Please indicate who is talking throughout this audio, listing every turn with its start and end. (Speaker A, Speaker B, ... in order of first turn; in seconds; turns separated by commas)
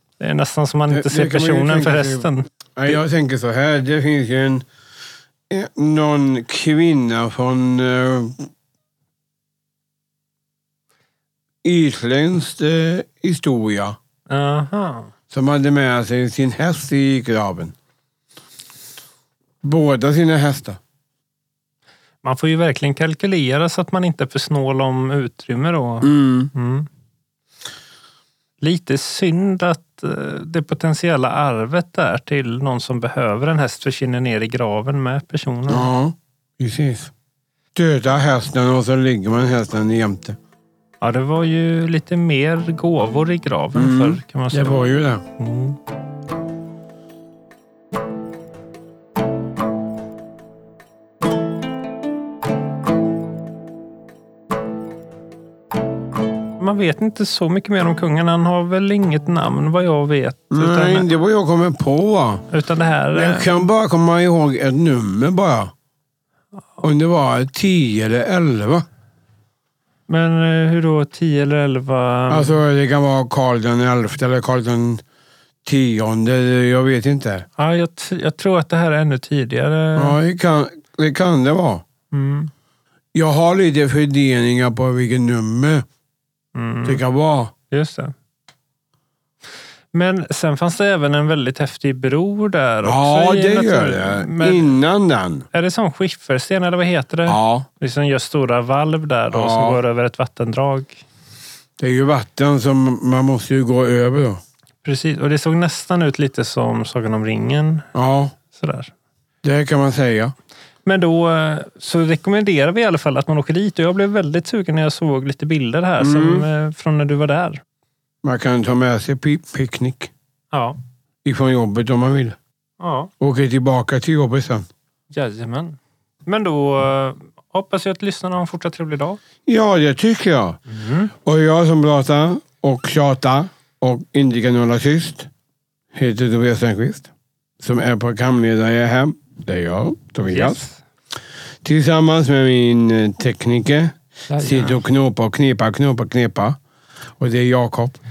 Speaker A: 0.2-3.0, Speaker B: 0.9-4.7, Speaker B: 5.5-8.4, Speaker B: 11.6-14.0, Speaker A: 14.3-15.1, Speaker B: 15.3-17.8, Speaker B: 19.6-20.8, Speaker A: 22.2-26.9, Speaker B: 26.0-26.5, Speaker A: 28.6-35.9, Speaker B: 35.7-37.1, Speaker B: 37.8-40.4, Speaker A: 41.0-44.8, Speaker B: 43.8-45.2, Speaker A: 45.4-45.8, Speaker A: 56.6-61.1, Speaker B: 60.5-62.5, Speaker A: 62.5-63.6, Speaker B: 63.1-65.7, Speaker B: 66.8-68.8, Speaker A: 70.1-72.6, Speaker B: 72.3-75.0, Speaker B: 75.7-77.5, Speaker A: 77.6-80.2, Speaker B: 80.0-81.8, Speaker A: 82.1-82.5, Speaker B: 83.1-85.8, Speaker A: 86.5-87.0, Speaker B: 86.9-87.5, Speaker A: 87.7-88.1, Speaker A: 89.9-94.8, Speaker B: 92.8-95.5, Speaker A: 95.5-101.0, Speaker B: 97.3-97.7, Speaker B: 99.3-99.8, Speaker B: 101.8-104.4, Speaker A: 104.8-107.9, Speaker B: 107.9-108.3, Speaker A: 108.5-108.9, Speaker B: 109.4-110.3, Speaker A: 110.8-117.6, Speaker B: 116.0-116.5, Speaker B: 118.2-120.1, Speaker A: 120.5-120.8, Speaker B: 121.2-122.4, Speaker A: 122.8-123.1, Speaker B: 123.2-124.7, Speaker A: 125.1-129.2, Speaker B: 129.5-130.6, Speaker A: 130.7-131.1, Speaker B: 131.2-135.3, Speaker B: 135.9-137.1, Speaker B: 137.6-140.7, Speaker A: 140.3-140.8, Speaker B: 141.6-146.6, Speaker A: 144.3-144.8, Speaker B: 147.2-148.0